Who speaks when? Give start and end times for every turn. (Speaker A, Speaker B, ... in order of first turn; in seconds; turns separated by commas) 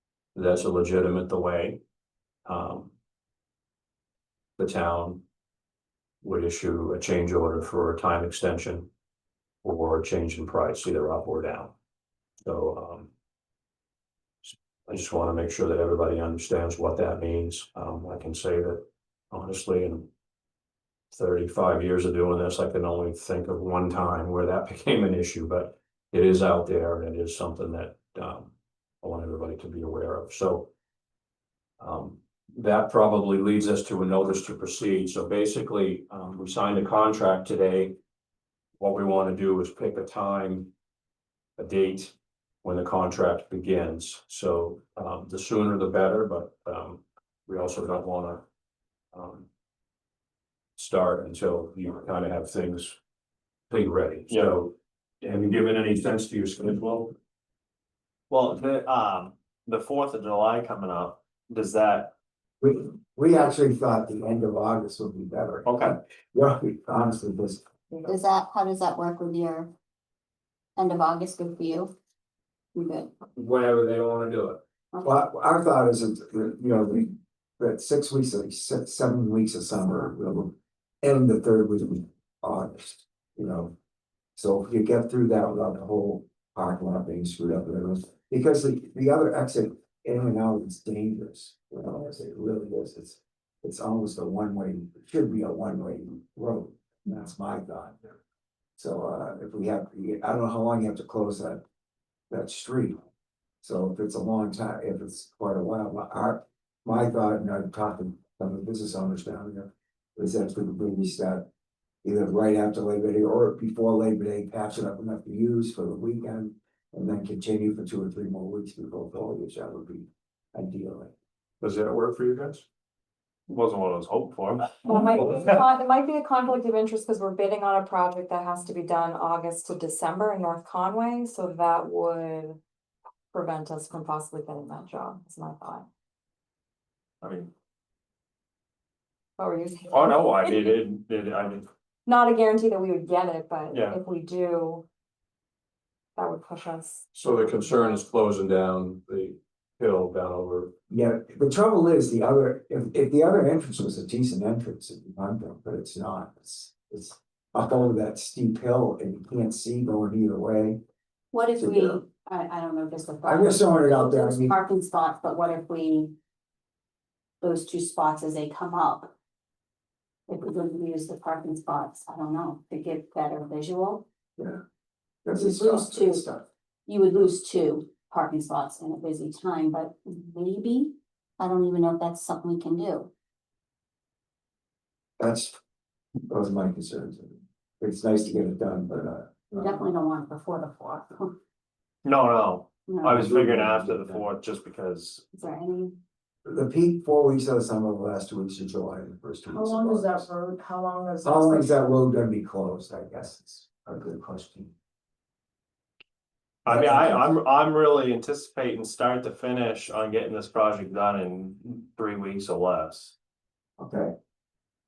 Speaker A: 0.3-1.8, Speaker A: 2.5-2.9, Speaker A: 4.6-5.2, Speaker A: 6.2-8.9, Speaker A: 9.6-11.7, Speaker A: 12.4-13.1, Speaker A: 14.4-20.1, Speaker A: 21.1-30.7, Speaker A: 31.8-38.0, Speaker A: 38.8-40.7, Speaker A: 41.6-48.4, Speaker A: 49.1-49.5, Speaker A: 50.8-53.0, Speaker A: 53.7-57.1, Speaker B: 54.3-54.6, Speaker B: 58.3-62.1, Speaker C: 62.6-67.7, Speaker B: 65.7-66.0, Speaker D: 68.0-69.7, Speaker D: 70.8-71.9, Speaker D: 72.8-73.1, Speaker A: 73.4-74.6, Speaker C: 75.0-83.7, Speaker C: 84.4-98.0, Speaker C: 98.8-101.6, Speaker C: 102.3-103.0, Speaker C: 103.6-111.5, Speaker C: 112.0-121.1, Speaker A: 121.6-122.7, Speaker B: 123.5-125.6, Speaker E: 124.8-132.6, Speaker E: 133.3-135.9, Speaker B: 137.2-137.5, Speaker E: 139.4-140.8, Speaker B: 139.9-141.7, Speaker E: 142.1-144.8, Speaker B: 143.7-144.0, Speaker E: 146.2-148.0, Speaker A: 147.1-150.7, Speaker C: 150.9-160.8, Speaker D: 161.3-166.1, Speaker C: 161.6-162.0, Speaker C: 163.2-164.6, Speaker D: 167.4-169.1, Speaker D: 170.3-174.0, Speaker C: 175.2-176.4, Speaker D: 175.3-176.3, Speaker D: 176.9-183.1, Speaker C: 185.2-185.6, Speaker C: 186.3-189.8, Speaker D: 189.6-191.3, Speaker B: 192.0-195.2, Speaker D: 192.9-193.2, Speaker C: 193.1-194.3, Speaker D: 195.3-196.0, Speaker C: 196.4-200.3, Speaker F: 199.5-201.8, Speaker C: 201.2-204.7, Speaker B: 206.7-213.2, Speaker C: 206.7-207.0, Speaker C: 213.8-214.1